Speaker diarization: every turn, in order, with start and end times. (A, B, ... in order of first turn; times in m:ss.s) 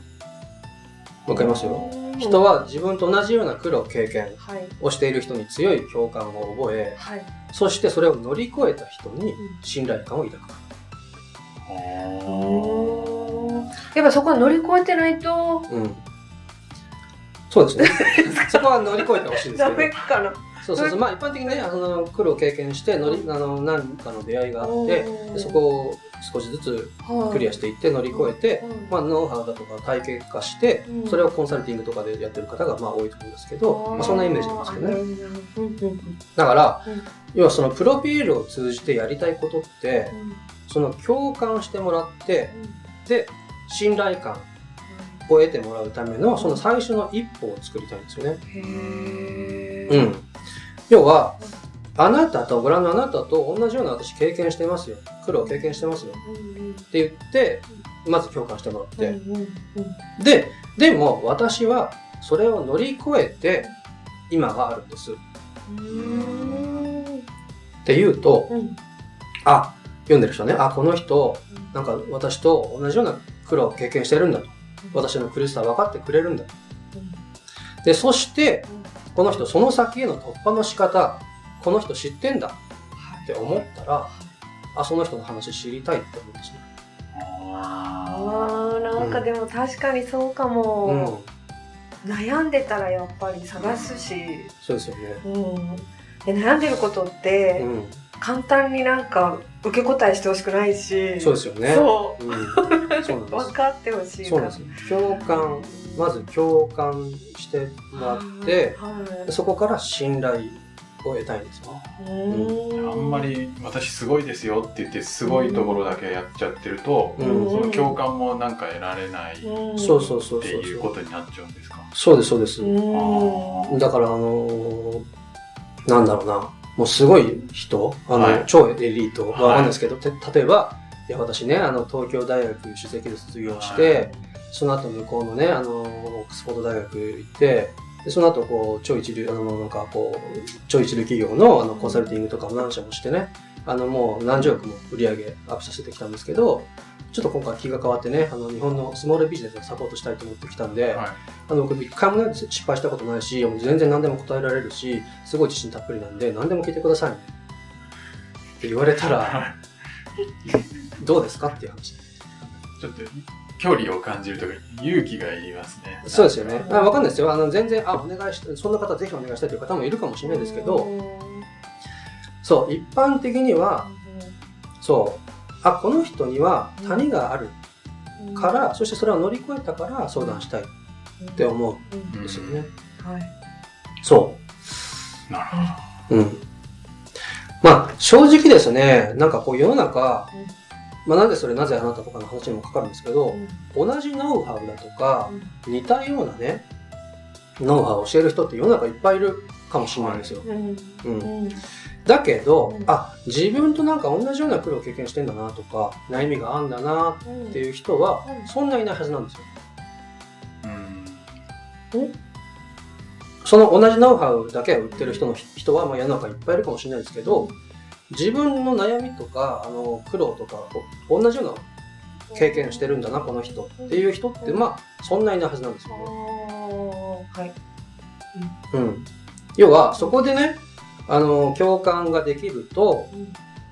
0:01.2-0:01.8 A
0:01.2-0:07.0 B
0:01.4-0:02.5 C
0:04.4-0:04.7 C
0:07.0-0:07.3 C
0:07.5-0:10.6 B
0:11.6-0:13.7 A
0:12.2-0:15.7 C
0:15.7-0:16.0 B
0:17.5-0:19.9 B
0:17.8-0:18.5 C
0:19.0-0:21.7 C
0:20.6-0:35.0 B
0:24.6-0:25.6 C
0:27.0-0:29.0 C
0:30.9-0:31.2 C
0:33.6-0:36.2 C
0:33.9-0:34.2 A
0:36.4-0:40.1 B
0:40.1-0:40.4 C
0:40.7-0:44.5 B
0:42.5-0:42.8 C
0:44.9-0:45.2 C
0:45.3-0:48.4 B
0:46.4-0:46.6 C
0:48.4-0:50.1 C
0:48.6-0:49.7 A
0:49.9-0:50.3 B
0:50.9-0:51.4 B
0:52.0-0:56.2 B
0:55.4-0:56.9 C
0:56.9-0:59.2 B
0:59.0-1:00.0 C
1:00.2-1:03.7 B
1:04.3-1:05.2 B
1:05.7-1:07.2 C
1:05.9-1:06.9 A
1:07.8-1:08.5 B
1:08.5-1:08.8 C
1:09.4-1:16.5 B
1:16.9-1:17.2 C
1:17.8-1:22.6 B
1:18.7-1:18.9 C
1:23.0-1:23.3 C
1:23.2-1:24.1 B
1:23.4-1:23.6 A
1:24.1-1:24.3 C
1:24.7-1:26.6 B
1:27.1-1:29.0 A
1:27.6-1:31.1 C
1:29.0-1:29.3 B
1:30.8-1:31.3 B
1:32.0-1:34.5 C
1:33.5-1:34.3 A
1:34.6-1:35.2 B
1:35.2-1:37.7 C
1:37.6-1:38.0 B
1:38.2-1:46.2 C
1:41.2-1:43.5 B
1:44.2-1:52.6 B
1:44.8-1:45.4 A
1:47.9-1:49.3 C
1:52.0-1:53.3 C
1:52.7-1:59.6 A
1:55.2-1:55.9 C
1:57.2-1:57.6 B
1:57.2-1:58.0 C
1:59.4-2:00.2 C
1:59.8-2:00.9 B
2:00.4-2:01.9 A
2:01.9-2:02.7 B
2:02.6-2:03.6 C
2:02.9-2:03.8 A
2:03.7-2:05.0 B
2:05.8-2:37.3 B
2:08.1-2:08.5 A
2:09.3-2:09.8 A
2:13.4-2:14.0 A
2:14.0-2:14.3 C
2:21.7-2:22.2 C
2:24.3-2:24.8 C
2:30.9-2:31.2 A
2:38.6-2:39.4 B
2:39.1-2:39.6 A
2:41.0-2:42.0 B
2:42.4-2:46.7 A
2:46.0-2:50.9 B
2:46.6-2:47.1 C
2:50.2-2:51.5 C
2:52.4-2:53.9 B
2:53.8-2:54.4 C
2:54.8-2:57.6 B
2:56.8-2:57.0 C
2:58.2-2:58.8 C
2:58.3-3:00.7 B
3:00.2-3:00.5 C
3:01.2-3:02.1 C
3:01.4-3:02.7 B
3:02.1-3:02.8 A
3:03.0-3:03.3 C
3:04.0-3:04.4 B
3:05.3-3:05.8 A
3:06.1-3:06.4 B
3:07.6-3:10.3 B
3:11.0-3:16.6 B
3:13.3-3:13.6 C
3:15.3-3:15.5 C
3:17.6-3:20.5 B
3:19.8-3:20.3 A
3:20.4-3:21.6 C
3:21.0-3:21.3 B
3:22.0-3:29.4 B
3:22.6-3:22.9 C
3:27.2-3:27.6 C
3:30.6-3:31.4 A
3:33.4-3:37.5 B
3:34.9-3:35.3 C
3:37.2-3:37.6 C
3:38.1-3:41.7 B
3:42.3-3:44.6 C
3:42.3-3:46.1 B
3:45.9-3:47.5 C
3:48.7-3:53.1 B
3:49.9-3:50.2 C
3:53.1-3:53.4 C